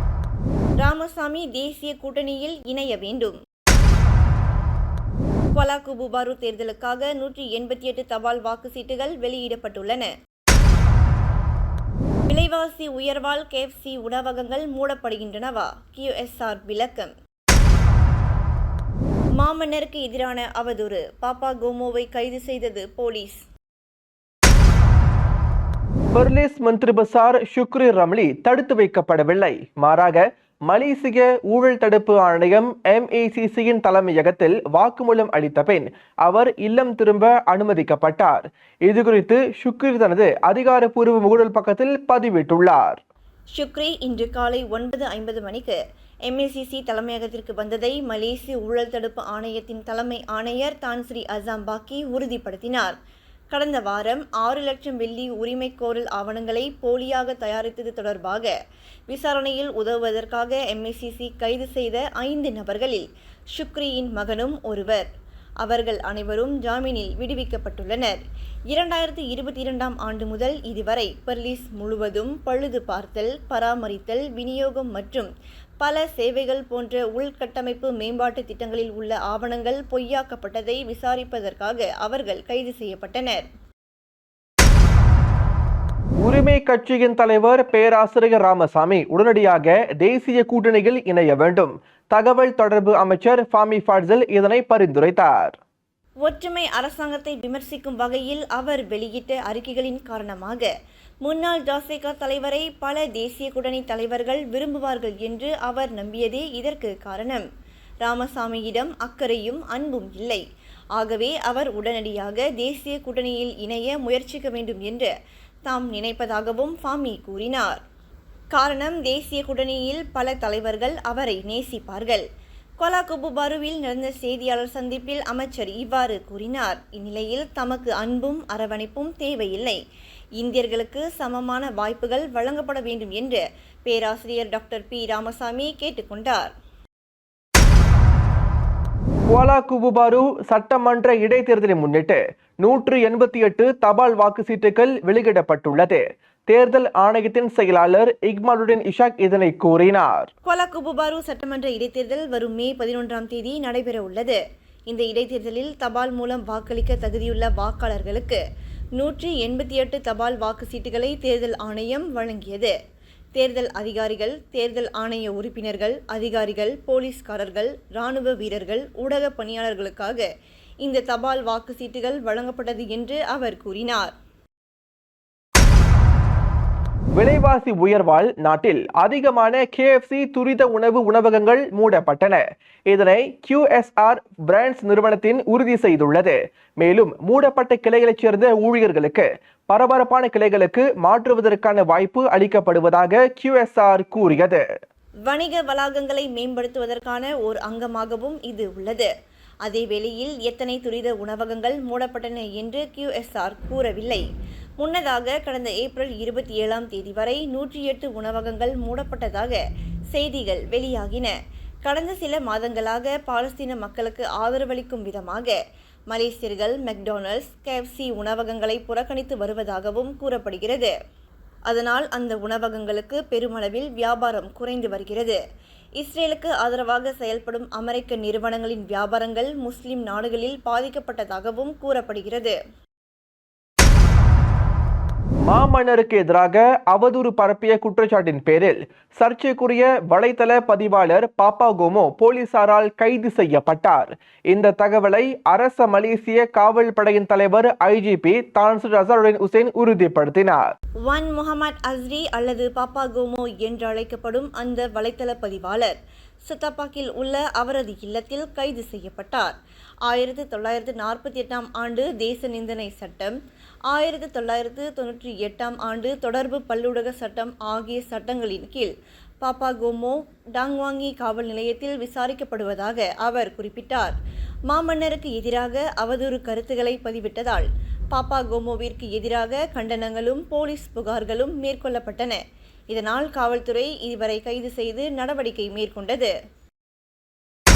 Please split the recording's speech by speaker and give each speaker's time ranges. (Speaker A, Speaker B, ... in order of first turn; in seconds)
Speaker A: 0.8-3.4, 5.5-10.1, 12.3-17.1, 19.4-23.4, 43.5-45.8, 46.3-52.9, 53.5-58.5, 59.1-65.1, 65.6-68.2, 68.7-75.3, 75.8-83.4, 96.2-100.7, 101.2-107.4, 108.0-110.4, 111.0-115.1, 115.7-117.8, 118.5-122.2, 122.8-129.8, 130.4-136.5, 150.4-158.4, 159.0-162.7, 163.3-170.2, 170.8-174.1, 195.3-199.1, 199.6-204.2, 204.8-209.6, 210.1-211.3, 211.8-215.5, 216.1-220.9, 221.7-225.4, 226.0-232.6, 251.0-255.9, 256.5-259.5, 260.1-263.4, 263.9-268.9, 269.4-274.1, 274.7-282.4, 282.9-286.3
Speaker B: 26.1-43.0, 86.2-95.6, 139.3-150.3, 177.2-194.6, 235.5-250.7